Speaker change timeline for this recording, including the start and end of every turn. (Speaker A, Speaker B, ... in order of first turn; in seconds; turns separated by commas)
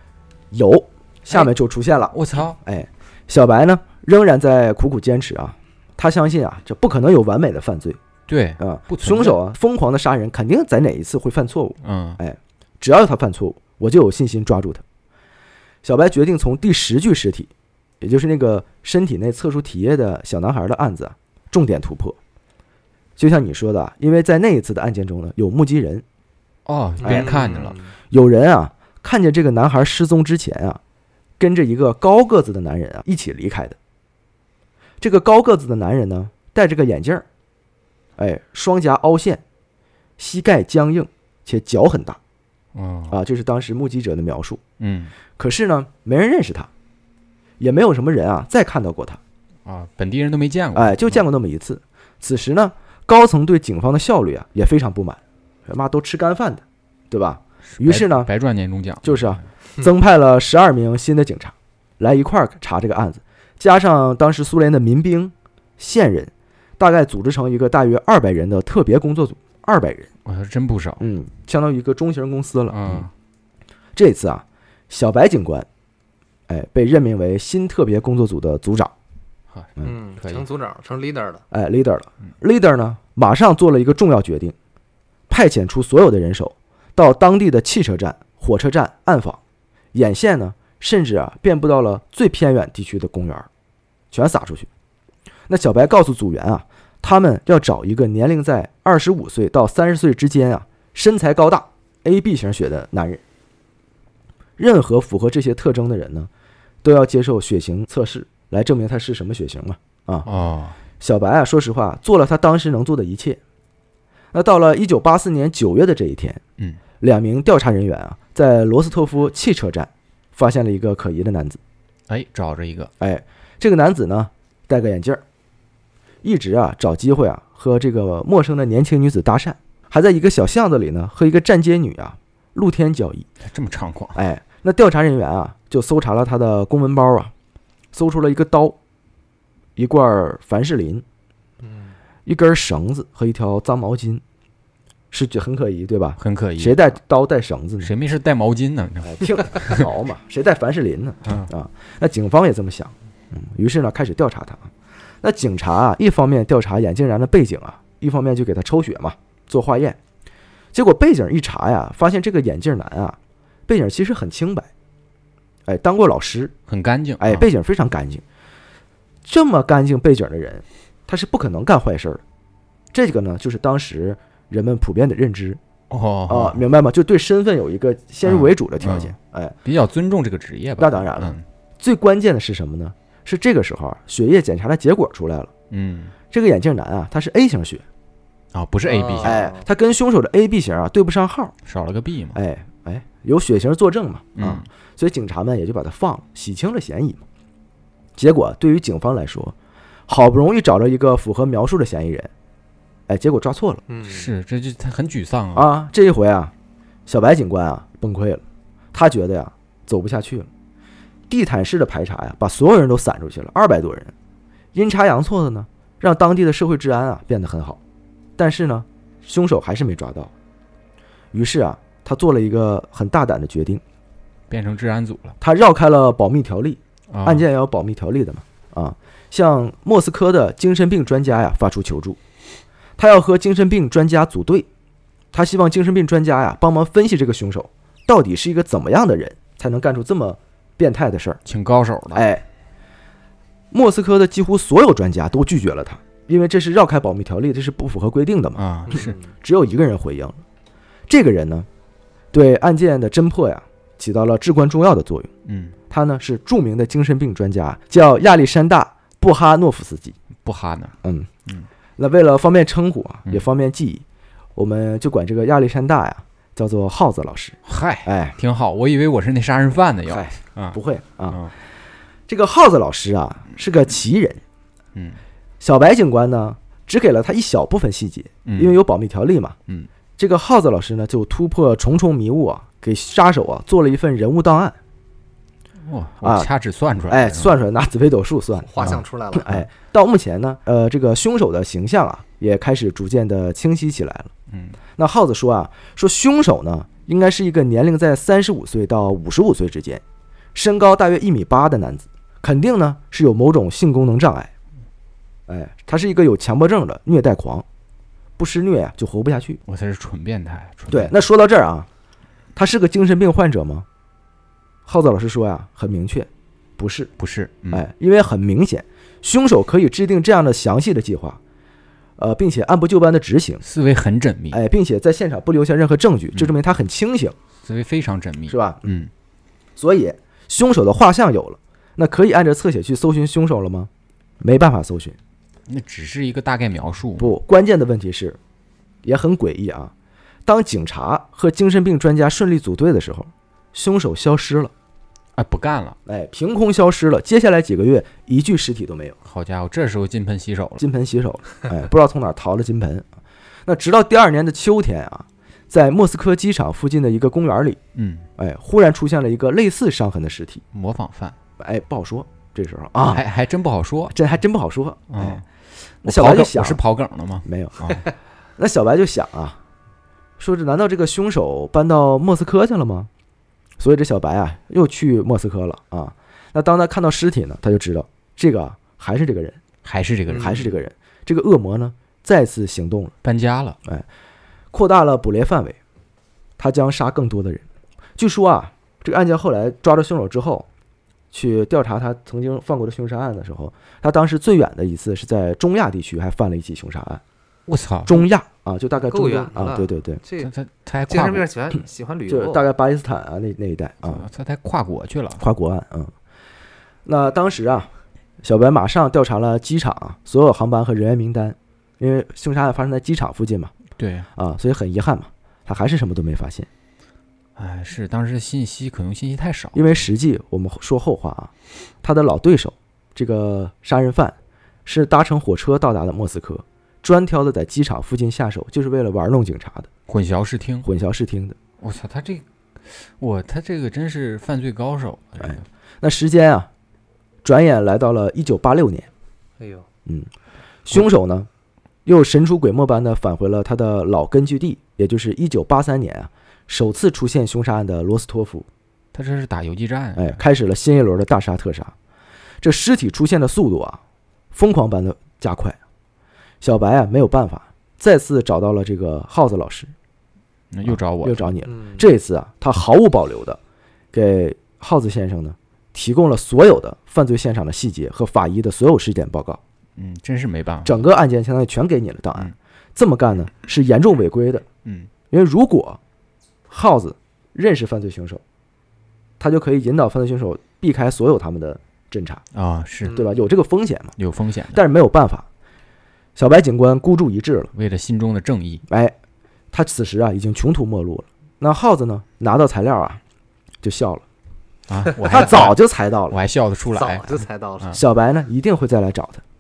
Speaker A: 0.5-8.0, Speaker B: 2.1-2.6, Speaker B: 8.3-9.4, Speaker A: 8.6-14.8, Speaker B: 11.8-12.2, Speaker A: 15.8-22.2, Speaker A: 23.2-26.0, Speaker B: 26.7-27.8, Speaker C: 27.0-27.9, Speaker A: 27.0-27.4, Speaker A: 28.1-30.8, Speaker A: 31.4-33.8, Speaker A: 35.0-37.3, Speaker A: 38.2-39.4, Speaker A: 40.2-42.2, Speaker B: 42.7-43.2, Speaker A: 43.1-44.6, Speaker B: 44.8-45.1, Speaker A: 45.4-46.7, Speaker A: 47.6-49.2, Speaker B: 49.6-51.2, Speaker A: 50.8-58.3, Speaker B: 57.7-59.5, Speaker A: 59.0-70.1, Speaker B: 70.2-71.0, Speaker A: 71.0-73.1, Speaker B: 72.7-73.1, Speaker A: 74.0-75.7, Speaker A: 76.5-78.9, Speaker B: 79.5-80.5, Speaker C: 79.8-81.4, Speaker A: 81.5-84.5, Speaker A: 85.3-89.4, Speaker A: 89.9-93.5, Speaker A: 94.1-94.7, Speaker A: 95.5-103.2, Speaker A: 104.6-106.3, Speaker A: 106.8-110.3, Speaker B: 110.3-110.8, Speaker A: 111.0-113.4, Speaker A: 114.3-116.4, Speaker A: 117.0-121.6, Speaker B: 122.1-122.9, Speaker A: 123.0-125.2, Speaker A: 126.2-133.3, Speaker B: 133.4-134.2, Speaker A: 134.1-137.3, Speaker A: 137.9-138.8, Speaker A: 139.8-141.0, Speaker C: 141.6-141.9, Speaker A: 142.3-144.2, Speaker A: 145.1-147.9, Speaker B: 146.2-146.8, Speaker B: 147.8-149.9, Speaker A: 149.0-154.7, Speaker A: 155.2-160.0, Speaker A: 160.7-164.7, Speaker A: 165.7-166.5, Speaker B: 166.7-167.5, Speaker A: 167.2-168.2, Speaker A: 169.2-172.2, Speaker A: 172.9-175.6, Speaker B: 175.9-176.6, Speaker A: 176.3-179.6, Speaker B: 178.2-181.4, Speaker A: 180.8-185.5, Speaker B: 185.7-186.1, Speaker A: 186.3-187.8, Speaker B: 188.5-189.4, Speaker C: 188.9-189.6, Speaker A: 189.2-191.5, Speaker B: 191.6-192.4, Speaker A: 192.3-197.2, Speaker B: 194.4-194.7, Speaker A: 198.2-199.6, Speaker A: 200.1-202.3, Speaker A: 203.1-203.8, Speaker C: 203.9-204.3, Speaker B: 204.0-205.7, Speaker A: 205.5-206.5, Speaker A: 207.1-210.5, Speaker A: 211.3-214.1, Speaker A: 214.7-217.8, Speaker A: 218.4-220.3, Speaker A: 221.3-223.8, Speaker B: 224.5-225.4, Speaker A: 225.4-232.2, Speaker B: 227.1-227.5, Speaker A: 233.0-234.7, Speaker A: 235.3-241.4, Speaker B: 241.4-242.2, Speaker A: 242.1-242.4, Speaker A: 243.7-250.4, Speaker B: 248.6-249.2, Speaker C: 248.9-249.2, Speaker A: 251.1-251.7, Speaker A: 252.3-255.3, Speaker B: 255.4-255.8, Speaker A: 255.9-260.2, Speaker B: 260.4-260.9, Speaker A: 261.0-261.3, Speaker A: 262.0-264.0, Speaker A: 264.6-268.4, Speaker B: 267.6-270.8, Speaker A: 270.1-271.4, Speaker A: 272.3-274.4, Speaker B: 274.9-275.2, Speaker A: 275.6-279.6, Speaker B: 278.5-278.8, Speaker A: 280.2-284.8, Speaker B: 285.8-287.6, Speaker A: 286.2-286.5, Speaker A: 287.1-294.3, Speaker C: 288.7-289.5, Speaker B: 294.5-294.8, Speaker A: 295.0-300.0, Speaker A: 300.6-304.5, Speaker A: 305.5-307.6, Speaker A: 308.4-309.6, Speaker B: 309.7-311.2, Speaker A: 310.9-311.9, Speaker A: 312.6-313.9, Speaker A: 314.9-317.1, Speaker B: 317.2-317.9, Speaker A: 317.7-321.4, Speaker A: 322.2-323.6, Speaker B: 323.6-324.6, Speaker A: 324.5-327.4, Speaker B: 327.6-329.1, Speaker A: 328.5-328.9, Speaker A: 329.8-333.9, Speaker A: 334.4-335.2, Speaker B: 335.7-337.3, Speaker A: 337.2-338.4, Speaker A: 339.0-339.9, Speaker A: 340.5-344.7, Speaker B: 345.4-346.0, Speaker A: 346.1-349.2, Speaker B: 349.2-350.9, Speaker A: 350.8-353.1, Speaker A: 353.7-357.8, Speaker B: 357.9-358.3, Speaker A: 358.4-360.6, Speaker B: 360.7-361.4, Speaker A: 361.6-363.2, Speaker B: 363.1-364.2, Speaker A: 364.1-365.4, Speaker B: 365.1-365.5, Speaker B: 366.0-368.1, Speaker A: 366.0-366.8, Speaker A: 367.4-368.0, Speaker A: 368.6-369.6, Speaker A: 370.4-373.1, Speaker A: 373.8-379.6, Speaker B: 379.8-380.7, Speaker C: 380.3-380.7, Speaker A: 380.4-383.1, Speaker B: 383.2-383.8, Speaker A: 384.7-385.8, Speaker A: 386.6-387.6, Speaker A: 388.2-390.7, Speaker A: 391.3-397.2, Speaker B: 397.7-398.3, Speaker A: 398.1-400.2, Speaker C: 399.1-400.5, Speaker B: 400.4-401.5, Speaker C: 401.1-402.6, Speaker A: 402.3-404.2, Speaker B: 404.1-405.4, Speaker A: 405.4-406.1, Speaker A: 407.1-407.9, Speaker A: 408.4-413.7, Speaker B: 414.0-414.3, Speaker A: 414.4-416.7, Speaker B: 417.6-420.0, Speaker A: 419.8-421.5, Speaker A: 422.0-429.9, Speaker B: 430.1-430.9, Speaker A: 430.8-431.6, Speaker B: 431.8-435.6, Speaker A: 435.4-436.7, Speaker A: 437.4-439.1, Speaker C: 439.6-439.9, Speaker A: 440.9-441.5, Speaker A: 442.1-448.7, Speaker B: 449.1-450.4, Speaker A: 450.2-451.9, Speaker A: 452.6-454.0, Speaker A: 454.5-455.8, Speaker A: 456.6-459.9, Speaker B: 460.7-461.5, Speaker A: 460.9-463.6, Speaker C: 461.7-462.1, Speaker A: 464.1-469.6, Speaker B: 470.0-471.0, Speaker A: 470.9-474.6, Speaker B: 474.8-475.1, Speaker A: 475.3-476.0, Speaker A: 476.7-478.4, Speaker A: 479.4-482.4, Speaker B: 482.5-483.2, Speaker A: 483.1-484.1, Speaker B: 484.2-484.8, Speaker A: 484.7-485.5, Speaker A: 486.4-487.7, Speaker B: 487.7-488.9, Speaker A: 488.9-489.1, Speaker A: 489.7-493.2, Speaker A: 493.8-494.2, Speaker B: 494.9-498.0, Speaker A: 495.2-496.4, Speaker C: 496.9-498.0, Speaker A: 497.9-499.4